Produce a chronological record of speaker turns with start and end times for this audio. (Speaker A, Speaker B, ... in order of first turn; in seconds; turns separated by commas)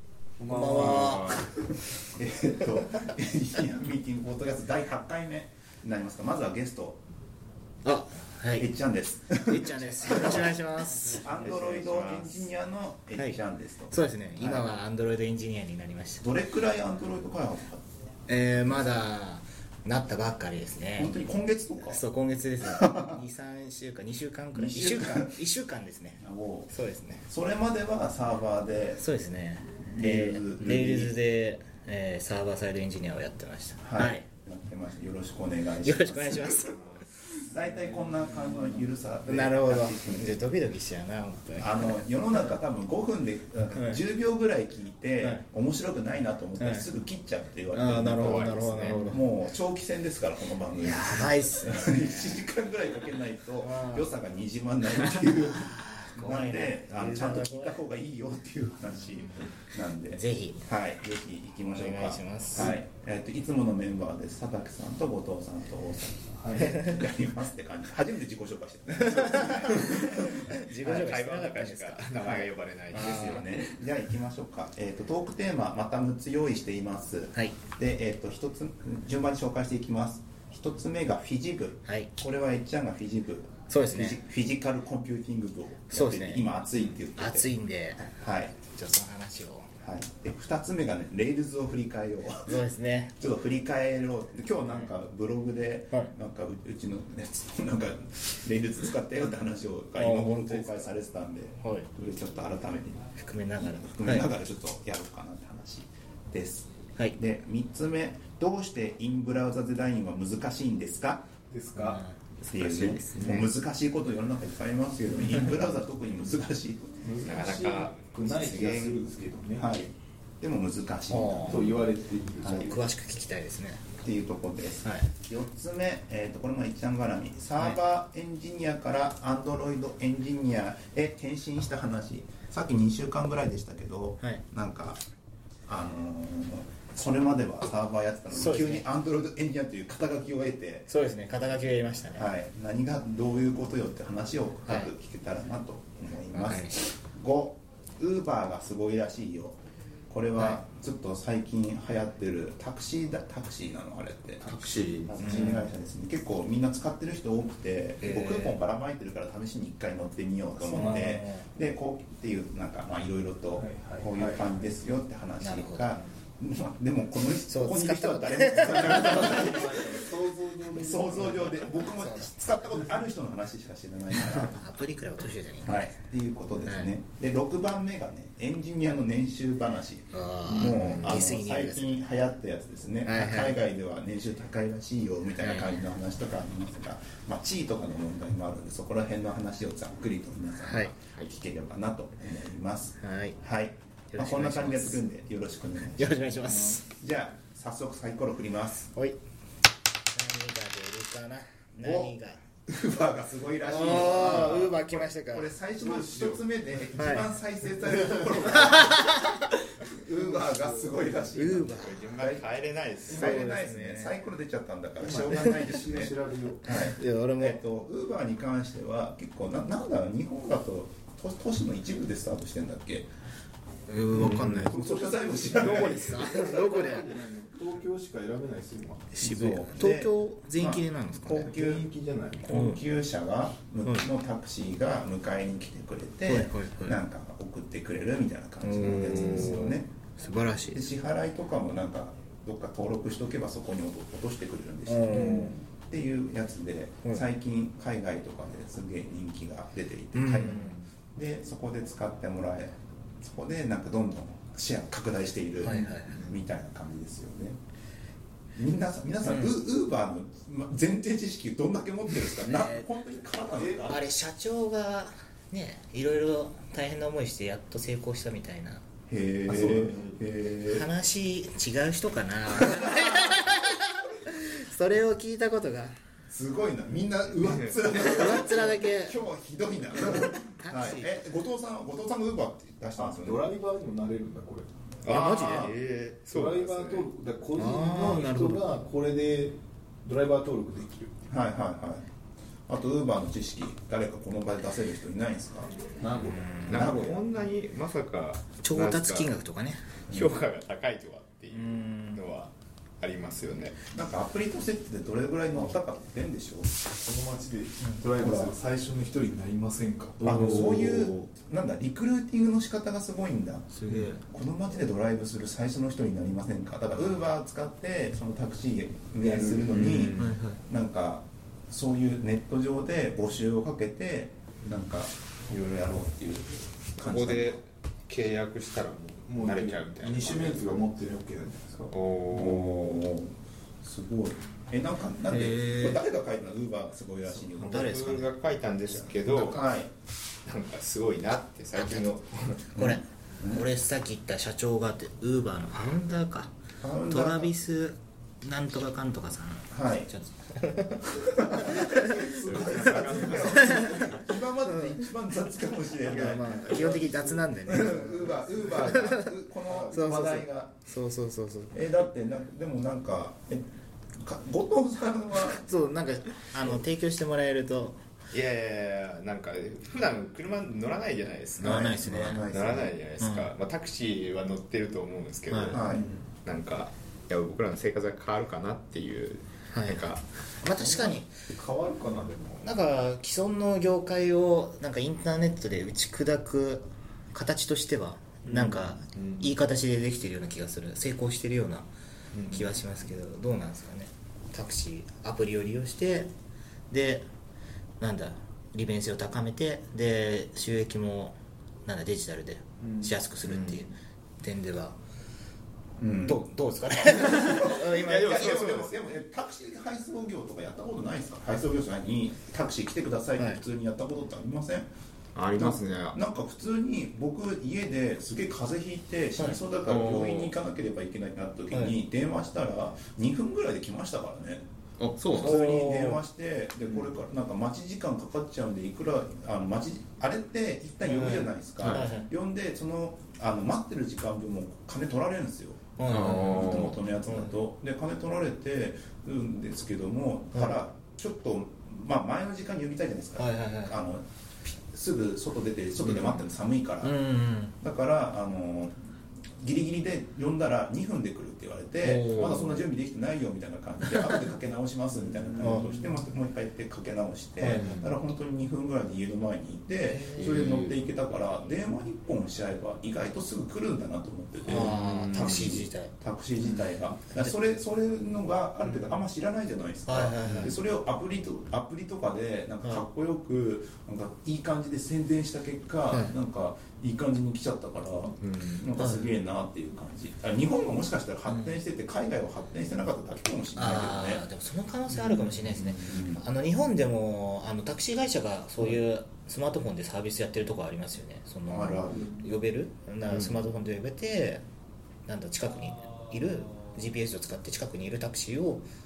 Speaker A: 0.4-1.3, Speaker B: 0.5-1.4, Speaker C: 0.6-1.5, Speaker D: 1.4-7.0, Speaker B: 7.8-8.7, Speaker D: 8.6-10.5, Speaker B: 9.4-12.4, Speaker C: 11.1-12.3, Speaker D: 11.2-14.8, Speaker B: 13.1-13.4, Speaker B: 13.9-16.3, Speaker D: 16.2-17.8, Speaker B: 18.3-21.2, Speaker D: 21.0-22.0, Speaker B: 21.8-27.3, Speaker D: 22.6-23.2, Speaker D: 24.5-25.4, Speaker D: 26.2-26.7, Speaker D: 27.2-29.0, Speaker B: 29.0-34.2, Speaker D: 30.0-31.1, Speaker D: 33.8-40.4, Speaker B: 35.8-36.9, Speaker B: 39.2-42.4, Speaker D: 41.6-70.5, Speaker B: 46.6-46.9, Speaker B: 47.7-49.2, Speaker C: 48.1-49.1, Speaker B: 50.8-52.5, Speaker B: 53.6-54.1, Speaker B: 55.0-57.8, Speaker B: 59.2-59.5, Speaker B: 60.1-60.7, Speaker B: 61.7-62.8, Speaker A: 66.4-66.8, Speaker B: 69.0-73.6, Speaker C: 70.8-73.3, Speaker D: 72.9-87.5, Speaker B: 81.8-82.1, Speaker B: 83.7-84.2, Speaker B: 85.9-88.1, Speaker D: 88.1-88.6, Speaker B: 88.6-89.7, Speaker D: 89.8-92.6, Speaker B: 92.4-93.2, Speaker D: 93.2-103.1, Speaker B: 94.6-94.9, Speaker B: 100.0-100.9, Speaker B: 101.6-101.9, Speaker B: 103.2-104.3, Speaker D: 103.6-111.3, Speaker A: 111.5-112.0, Speaker B: 111.8-112.2, Speaker C: 112.4-113.5, Speaker D: 112.5-117.0, Speaker A: 117.0-119.7, Speaker C: 117.2-119.0, Speaker D: 119.6-121.7, Speaker B: 121.1-121.8, Speaker A: 121.5-122.9, Speaker D: 122.4-122.7, Speaker B: 122.4-123.9, Speaker D: 124.0-135.0, Speaker B: 124.8-125.1, Speaker D: 135.7-140.9, Speaker B: 138.3-138.9, Speaker B: 140.9-142.3, Speaker D: 142.2-169.9, Speaker B: 144.7-144.9, Speaker B: 146.3-146.8, Speaker C: 154.4-155.2, Speaker B: 155.2-155.7, Speaker B: 158.1-158.5, Speaker B: 160.6-161.5, Speaker A: 160.8-161.1, Speaker A: 163.6-164.5, Speaker B: 165.4-166.1, Speaker B: 167.5-169.6, Speaker A: 168.8-171.7, Speaker D: 170.7-174.6, Speaker B: 171.5-172.3, Speaker B: 174.1-175.9, Speaker D: 175.6-198.9, Speaker B: 176.6-176.9, Speaker B: 180.1-182.0, Speaker C: 180.5-181.3, Speaker B: 183.1-183.6, Speaker B: 185.4-185.9, Speaker B: 190.6-190.9, Speaker B: 193.0-193.4, Speaker B: 194.1-195.0, Speaker B: 195.9-196.8, Speaker B: 200.1-202.4, Speaker D: 201.8-202.2, Speaker D: 202.7-212.5, Speaker B: 203.6-205.5, Speaker A: 205.8-206.4, Speaker B: 207.0-207.3, Speaker B: 208.0-209.5, Speaker B: 211.3-212.1, Speaker C: 211.8-213.3, Speaker D: 213.1-223.1, Speaker B: 213.1-214.2, Speaker A: 215.0-216.7, Speaker B: 216.7-217.6, Speaker B: 223.9-224.8, Speaker D: 224.1-226.2, Speaker C: 224.2-224.6, Speaker A: 224.7-229.2, Speaker B: 225.5-227.2, Speaker B: 229.1-231.6, Speaker D: 229.2-231.9, Speaker A: 231.4-232.5, Speaker D: 232.4-239.9, Speaker B: 232.5-232.8, Speaker B: 233.8-234.1, Speaker B: 236.3-237.0, Speaker B: 238.6-240.8, Speaker C: 239.2-239.6, Speaker D: 240.7-257.6, Speaker B: 244.9-245.6, Speaker B: 250.2-250.8, Speaker B: 255.6-256.3, Speaker D: 258.6-264.1, Speaker B: 259.2-259.6, Speaker B: 262.4-262.9, Speaker A: 263.5-264.1, Speaker B: 263.8-268.8, Speaker D: 269.1-270.9, Speaker A: 269.5-270.0, Speaker B: 269.6-276.0, Speaker D: 272.7-273.3, Speaker D: 276.3-283.5, Speaker C: 277.4-277.7, Speaker B: 277.9-279.2, Speaker B: 279.9-281.1, Speaker A: 283.0-284.7, Speaker C: 285.0-287.1, Speaker D: 285.1-285.8, Speaker B: 285.1-285.6, Speaker A: 286.3-291.1, Speaker B: 287.6-288.7, Speaker D: 291.3-292.1, Speaker D: 292.7-295.7, Speaker A: 296.0-296.6, Speaker B: 296.2-297.1, Speaker D: 296.7-297.2, Speaker C: 296.7-299.4, Speaker B: 298.6-300.0, Speaker C: 300.1-303.9, Speaker B: 301.5-302.2, Speaker D: 303.9-306.8, Speaker A: 306.9-310.4, Speaker D: 308.2-308.6, Speaker C: 310.2-311.3, Speaker D: 310.2-327.6, Speaker B: 313.7-314.2, Speaker A: 319.3-319.6, Speaker C: 319.5-320.4, Speaker B: 320.1-320.6, Speaker C: 327.0-330.9, Speaker A: 329.3-331.9, Speaker C: 331.8-333.1, Speaker D: 332.3-338.2, Speaker B: 335.3-336.0, Speaker B: 337.3-338.3, Speaker C: 337.6-339.6, Speaker B: 338.9-339.5, Speaker D: 339.3-339.9, Speaker C: 340.4-342.7, Speaker D: 342.8-343.7, Speaker B: 342.8-346.5, Speaker D: 346.8-347.5, Speaker B: 347.1-352.4, Speaker D: 349.7-350.1, Speaker D: 351.4-357.0, Speaker A: 351.5-353.5, Speaker C: 352.5-354.1, Speaker B: 353.5-354.1, Speaker B: 354.6-355.0, Speaker B: 356.0-359.3, Speaker A: 356.6-357.6, Speaker D: 357.6-360.7, Speaker A: 358.4-358.7, Speaker A: 359.7-359.9, Speaker B: 359.9-361.8, Speaker D: 361.7-365.6, Speaker B: 365.4-368.0, Speaker C: 368.3-375.9, Speaker B: 371.6-372.5, Speaker D: 371.6-372.9, Speaker B: 373.2-373.5, Speaker B: 375.5-375.8, Speaker D: 375.7-376.1, Speaker A: 375.9-376.2, Speaker C: 376.4-380.2, Speaker B: 379.7-380.1, Speaker B: 380.6-381.3, Speaker A: 380.9-382.7, Speaker B: 382.6-391.9, Speaker A: 388.4-389.6, Speaker A: 392.3-392.7, Speaker B: 392.5-396.3, Speaker B: 396.9-397.3, Speaker B: 398.0-405.0, Speaker A: 402.8-403.1, Speaker C: 403.5-403.8, Speaker D: 406.0-406.4, Speaker B: 406.3-408.7, Speaker D: 407.0-414.9, Speaker C: 407.5-409.0, Speaker C: 415.4-416.2, Speaker D: 415.5-424.6, Speaker B: 419.4-419.6, Speaker C: 419.9-420.6, Speaker C: 425.0-425.6, Speaker D: 425.4-447.1, Speaker B: 425.4-426.2, Speaker B: 431.0-432.3, Speaker C: 431.8-432.1, Speaker B: 436.0-437.6, Speaker C: 436.1-437.0, Speaker B: 440.5-440.8, Speaker B: 443.4-443.9, Speaker B: 447.0-447.8, Speaker D: 447.8-448.9, Speaker D: 449.6-484.4, Speaker C: 452.0-452.8, Speaker B: 455.6-455.9, Speaker C: 457.6-458.1, Speaker B: 457.7-458.0, Speaker C: 460.3-461.0, Speaker B: 464.7-466.1, Speaker C: 464.7-465.9, Speaker B: 466.7-467.6, Speaker B: 470.1-470.8, Speaker C: 478.4-478.9, Speaker B: 479.0-479.3, Speaker B: 481.5-481.7, Speaker B: 483.8-494.6, Speaker C: 485.4-485.9, Speaker D: 485.9-486.4, Speaker D: 491.7-492.3, Speaker C: 493.3-493.6, Speaker B: 495.3-498.9